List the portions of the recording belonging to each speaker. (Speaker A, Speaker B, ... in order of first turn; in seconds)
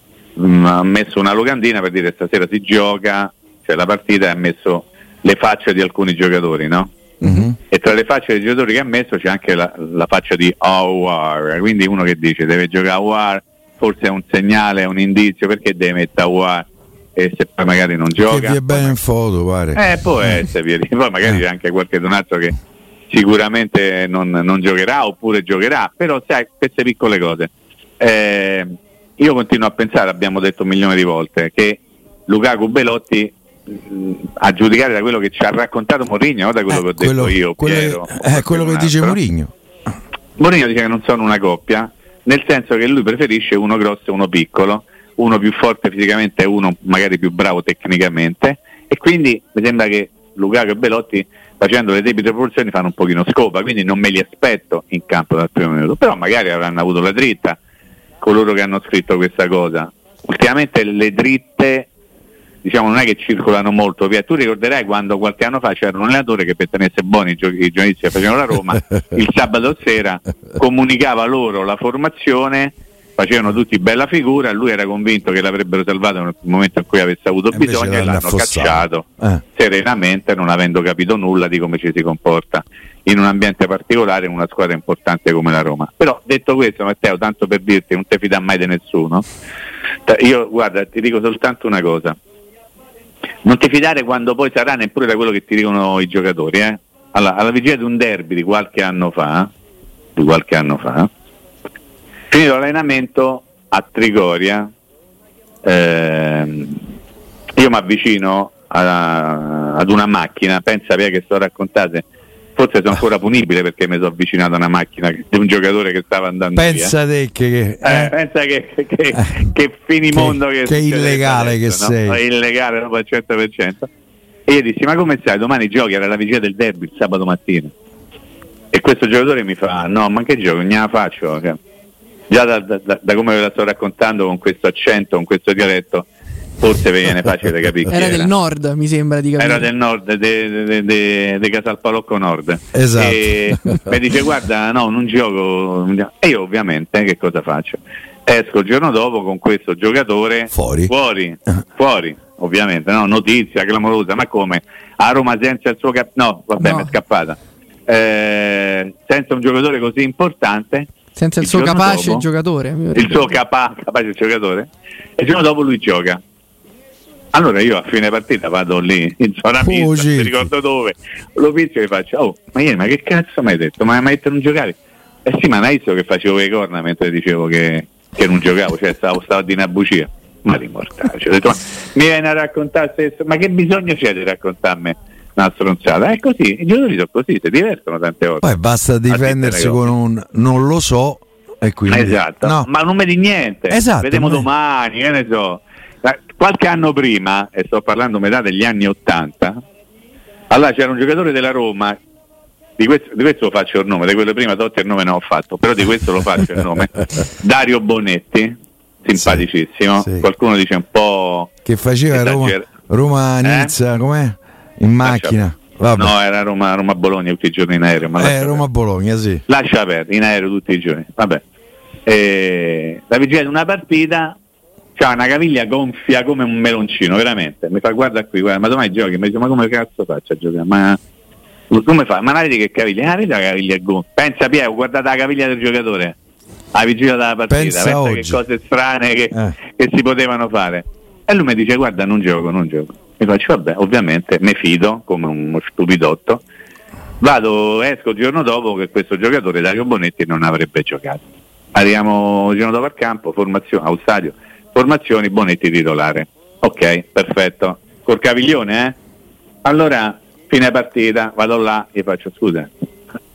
Speaker A: 0.3-6.9, 7.6-19.0, 19.7-22.5, 23.1-39.2, 40.4-57.6, 58.2-61.9, 62.6-89.2, 90.0-92.2, 93.4-99.5, 100.2-101.1, 102.3-104.7, 105.6-106.8, 107.5-112.0, 112.5-116.9, 117.8-123.9, 124.5-127.7, 128.7-131.6, 132.3-136.1, 136.6-138.3, 139.4-162.2, 162.9-166.2, 167.3-188.5, 189.1-189.9, 191.9-199.6, 200.5-202.0, 202.8-211.5, 212.1-212.7, 213.4-213.7, 215.0-215.4, 215.9-218.6, 219.5-221.4, 222.1-224.4, 224.9-231.0, 231.7-236.2, 236.7-246.4, 247.2-251.2, 251.7-258.9, 259.6-262.7
Speaker B: 7.2-7.5, 18.2-20.4, 36.7-39.5, 77.5-79.4, 116.5-118.1, 120.1-122.2, 142.7-143.8, 150.5-150.9, 169.6-170.5, 188.4-192.7, 193.7-194.5, 209.2-209.4, 210.0-210.2, 211.6-216.1, 218.2-219.4, 237.5-238.4
Speaker C: 137.9-139.7, 156.6-156.9, 161.2-163.3